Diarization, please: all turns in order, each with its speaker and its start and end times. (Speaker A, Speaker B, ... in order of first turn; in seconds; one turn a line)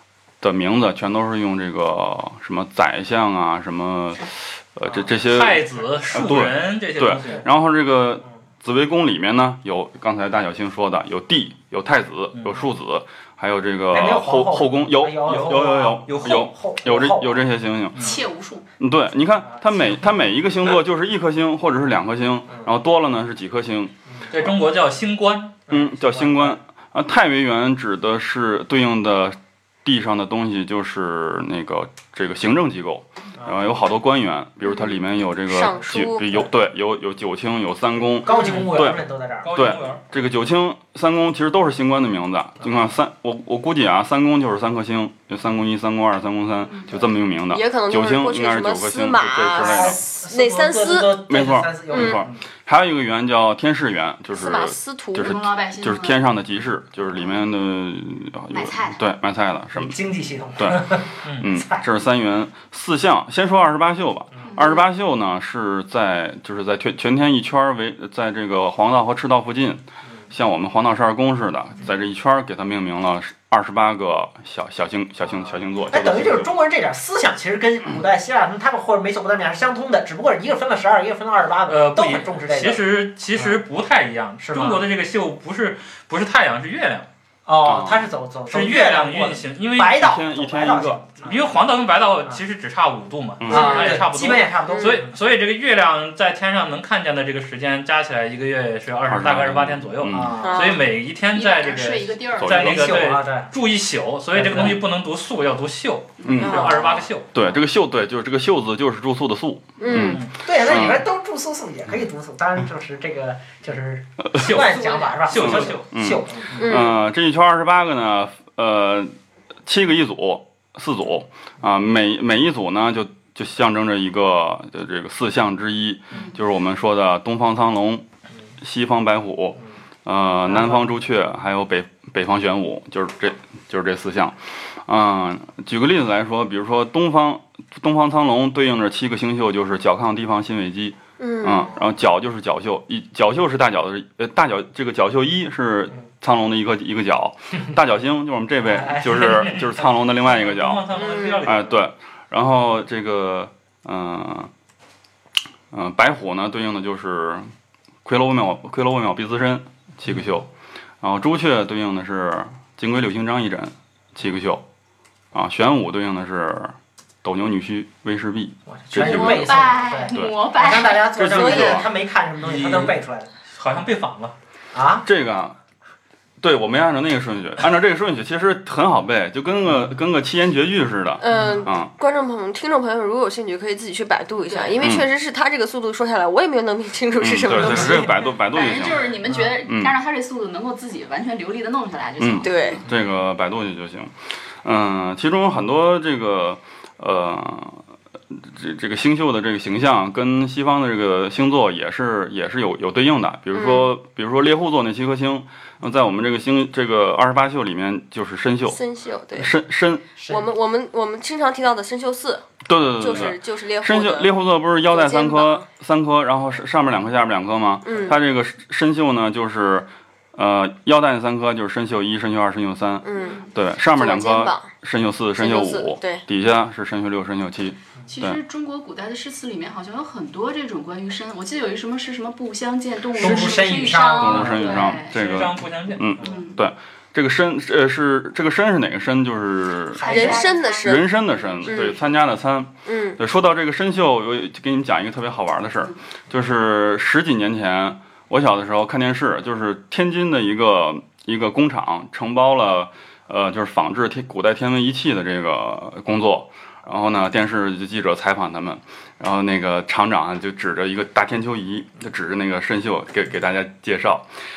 Speaker A: 0.4-18.2
Speaker B: 5.3-7.4
Speaker B: 12.3-12.6
Speaker C: 13.9-17.4
Speaker B: 15.2-16.5
Speaker D: 18.0-18.6
Speaker A: 18.8-23.9
Speaker B: 24.3-25.6
Speaker C: 25.7-26.6
Speaker A: 25.7-50.0
Speaker E: 35.5-36.5
Speaker C: 38.2-39.5
Speaker B: 38.4-38.7
Speaker B: 39.4-40.0
Speaker D: 46.6-47.0
Speaker E: 47.5-51.2
Speaker C: 49.5-52.4
Speaker A: 51.2-60.0
Speaker E: 51.9-52.2
Speaker E: 54.3-55.4
Speaker D: 55.2-56.2
Speaker D: 58.5-59.0
Speaker C: 59.7-61.8
Speaker A: 60.6-60.8
Speaker A: 61.4-76.5
Speaker C: 75.2-83.6
Speaker B: 81.7-87.1
Speaker C: 84.4-84.9
Speaker C: 87.5-91.5
Speaker A: 87.6-88.1
Speaker B: 88.5-90.0
Speaker A: 89.9-91.0
Speaker B: 91.2-107.3
Speaker A: 93.4-94.0
Speaker C: 93.5-95.1
Speaker E: 93.5-94.0
Speaker E: 94.7-95.0
Speaker A: 99.1-100.4
Speaker C: 100.1-100.8
Speaker E: 100.4-100.8
Speaker D: 101.3-102.7
Speaker A: 102.4-102.8
Speaker C: 102.5-103.5
Speaker C: 104.3-104.8
Speaker D: 106.2-106.5
Speaker A: 106.2-106.8
Speaker E: 106.4-106.8
Speaker C: 106.5-107.5
Speaker A: 107.3-111.1
Speaker E: 109.8-110.2
Speaker B: 109.9-110.3
Speaker C: 110.4-116.8
Speaker B: 114.3-115.9
Speaker A: 115.3-119.1
Speaker E: 116.5-117.0
Speaker A: 119.7-128.0
Speaker A: 128.6-150.8
Speaker C: 130.5-130.8
Speaker E: 141.2-141.7
Speaker C: 148.7-149.8
Speaker B: 150.2-151.8
Speaker E: 150.9-151.4
Speaker A: 151.4-154.5
Speaker A: 155.7-157.5
Speaker A: 158.0-160.5
Speaker A: 161.0-164.6
Speaker A: 165.3-170.4
Speaker C: 168.7-173.3
Speaker D: 169.0-171.7
Speaker A: 171.1-171.9
Speaker E: 171.3-171.8
Speaker B: 172.4-174.3
Speaker C: 174.7-175.0
Speaker A: 175.0-175.5
Speaker A: 176.4-181.9
Speaker E: 181.2-188.3
Speaker C: 181.3-181.7
Speaker D: 184.5-184.8
Speaker A: 184.8-185.1
Speaker A: 187.2-189.9
Speaker C: 187.6-188.1
Speaker D: 188.5-192.9
Speaker C: 189.3-189.5
Speaker A: 192.2-197.8
Speaker E: 192.4-192.8
Speaker A: 198.3-208.8
Speaker E: 203.5-203.9
Speaker E: 208.7-209.5
Speaker A: 209.3-210.1
Speaker C: 210.2-210.5
Speaker E: 210.3-215.7
Speaker A: 212.7-228.4
Speaker E: 217.8-218.2
Speaker E: 223.0-224.7
Speaker D: 223.1-223.5
Speaker E: 225.3-226.2
Speaker D: 228.1-235.1
Speaker C: 233.1-234.9
Speaker A: 234.1-240.2
Speaker B: 235.0-236.1
Speaker D: 236.2-236.6
Speaker C: 239.9-240.5
Speaker D: 240.0-242.0
Speaker E: 240.1-242.0
Speaker A: 240.8-264.3
Speaker E: 242.8-243.2